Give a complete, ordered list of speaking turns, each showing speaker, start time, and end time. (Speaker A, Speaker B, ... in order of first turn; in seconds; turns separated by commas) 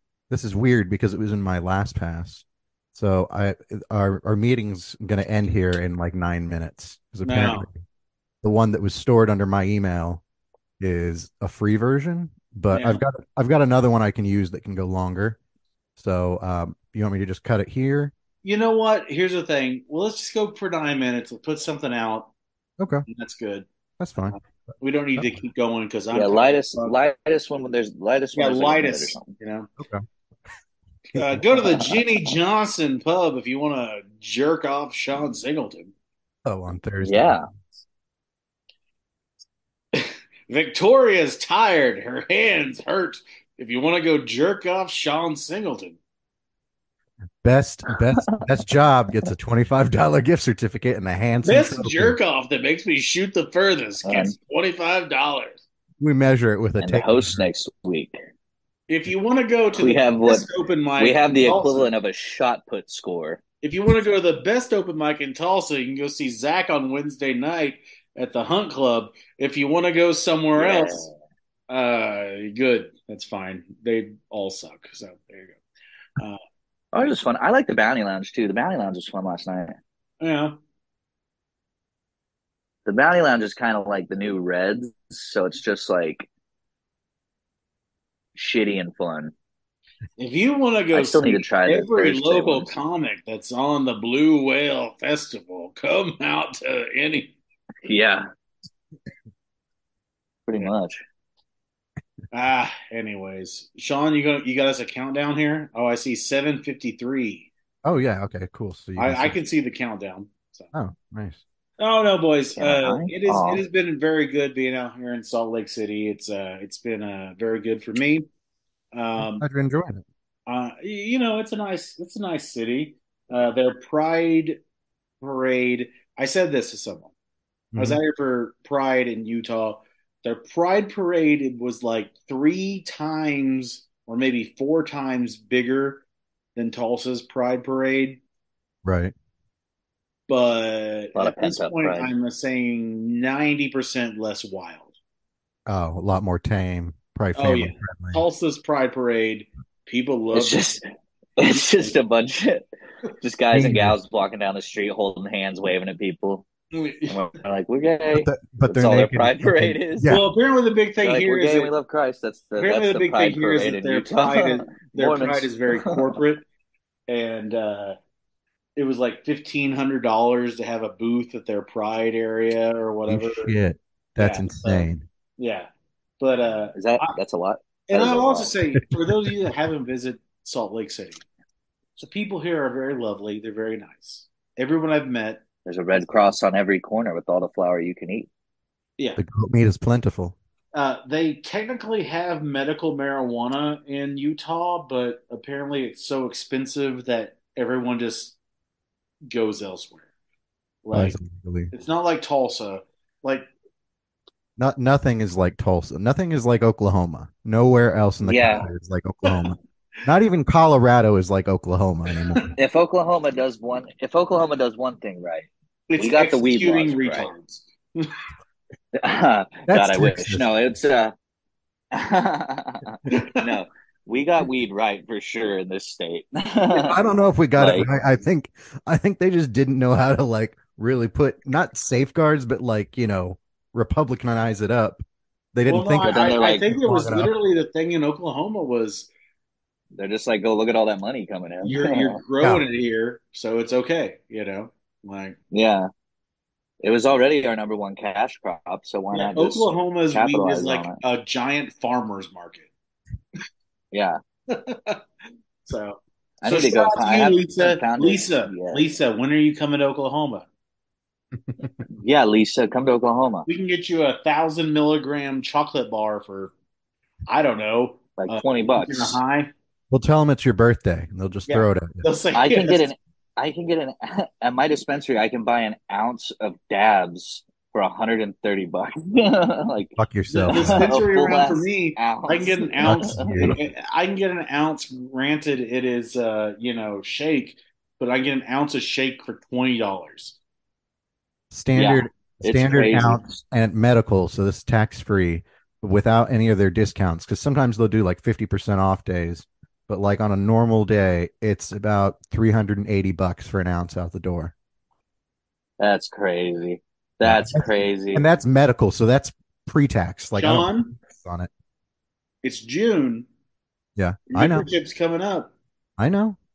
Speaker A: 0.3-7.8, Speaker B: 7.2-7.7, Speaker A: 8.4-10.2, Speaker A: 10.8-15.4, Speaker B: 12.7-13.0, Speaker A: 16.0-18.1, Speaker B: 18.4-22.3, Speaker A: 22.8-23.1, Speaker B: 23.1-23.7, Speaker A: 24.0-24.4, Speaker B: 24.2-26.9, Speaker C: 26.1-29.3, Speaker B: 28.4-29.7, Speaker B: 31.1-35.9, Speaker C: 31.7-32.0, Speaker A: 36.4-37.4, Speaker C: 37.0-37.5, Speaker B: 39.9-46.0, Speaker A: 47.4-52.1, Speaker B: 51.4-55.6, Speaker C: 54.0-54.3, Speaker A: 56.0-57.4, Speaker C: 56.8-58.2, Speaker B: 58.9-61.9, Speaker C: 59.8-63.4, Speaker B: 63.6-71.1, Speaker C: 70.6-71.1, Speaker B: 71.7-75.6, Speaker C: 76.9-79.8, Speaker B: 80.2-80.6, Speaker C: 82.9-86.3, Speaker C: 88.3-89.3, Speaker B: 90.2-97.4, Speaker C: 90.9-92.7, Speaker C: 97.8-98.3, Speaker C: 100.5-101.0, Speaker B: 102.3-107.5, Speaker A: 107.8-109.3, Speaker B: 109.0-110.7, Speaker A: 110.7-111.4, Speaker B: 111.8-118.3, Speaker C: 112.6-113.6, Speaker B: 118.9-119.5, Speaker A: 119.2-120.0, Speaker B: 120.5-124.6, Speaker B: 125.2-127.1, Speaker A: 127.7-128.0, Speaker B: 127.8-136.0, Speaker B: 136.6-138.2, Speaker A: 138.8-139.1, Speaker B: 140.3-144.9, Speaker C: 141.2-142.1, Speaker A: 145.7-148.2, Speaker B: 147.4-150.8, Speaker C: 150.3-150.8, Speaker C: 151.4-152.7, Speaker C: 153.2-156.5, Speaker A: 153.5-153.9, Speaker B: 156.7-157.2, Speaker C: 157.1-160.1, Speaker A: 158.1-160.3, Speaker B: 160.1-161.7, Speaker C: 161.0-166.2, Speaker B: 162.6-166.4, Speaker B: 167.1-167.9, Speaker B: 168.8-173.6, Speaker A: 173.1-175.1, Speaker B: 174.2-175.7, Speaker B: 176.2-177.1, Speaker C: 176.8-178.6, Speaker B: 177.9-181.2, Speaker A: 178.9-179.3, Speaker B: 182.0-185.4, Speaker C: 185.6-188.3, Speaker A: 189.2-190.3, Speaker B: 190.7-198.4, Speaker B: 199.3-200.1, Speaker B: 200.8-201.2, Speaker A: 200.9-201.7, Speaker B: 201.7-203.5, Speaker A: 204.6-212.5, Speaker C: 208.2-208.7, Speaker B: 209.2-209.5, Speaker C: 212.6-217.3, Speaker B: 215.9-218.1, Speaker C: 218.9-221.1, Speaker A: 219.7-220.4, Speaker C: 221.9-227.0, Speaker B: 223.1-223.5, Speaker A: 226.8-237.3, Speaker C: 227.6-227.9, Speaker B: 235.7-239.1, Speaker C: 236.1-236.7, Speaker C: 239.9-242.2, Speaker B: 241.6-245.4, Speaker C: 245.5-245.9, Speaker C: 246.8-251.0, Speaker B: 249.1-252.7, Speaker C: 253.9-254.2, Speaker B: 254.5-255.0, Speaker B: 255.7-260.5, Speaker C: 256.4-258.8, Speaker C: 261.9-263.5, Speaker B: 263.5-266.5, Speaker B: 267.3-269.5, Speaker C: 268.2-269.2, Speaker A: 269.9-272.0, Speaker B: 271.5-272.9, Speaker C: 272.3-280.0, Speaker A: 280.0-280.9, Speaker B: 280.3-290.4, Speaker C: 280.5-283.6, Speaker A: 282.8-283.6, Speaker A: 291.5-304.5, Speaker C: 291.8-293.2, Speaker C: 305.8-308.3, Speaker A: 307.2-311.5, Speaker B: 310.4-310.9, Speaker B: 312.4-313.3, Speaker A: 314.0-314.7, Speaker B: 314.3-315.5, Speaker A: 316.0-316.4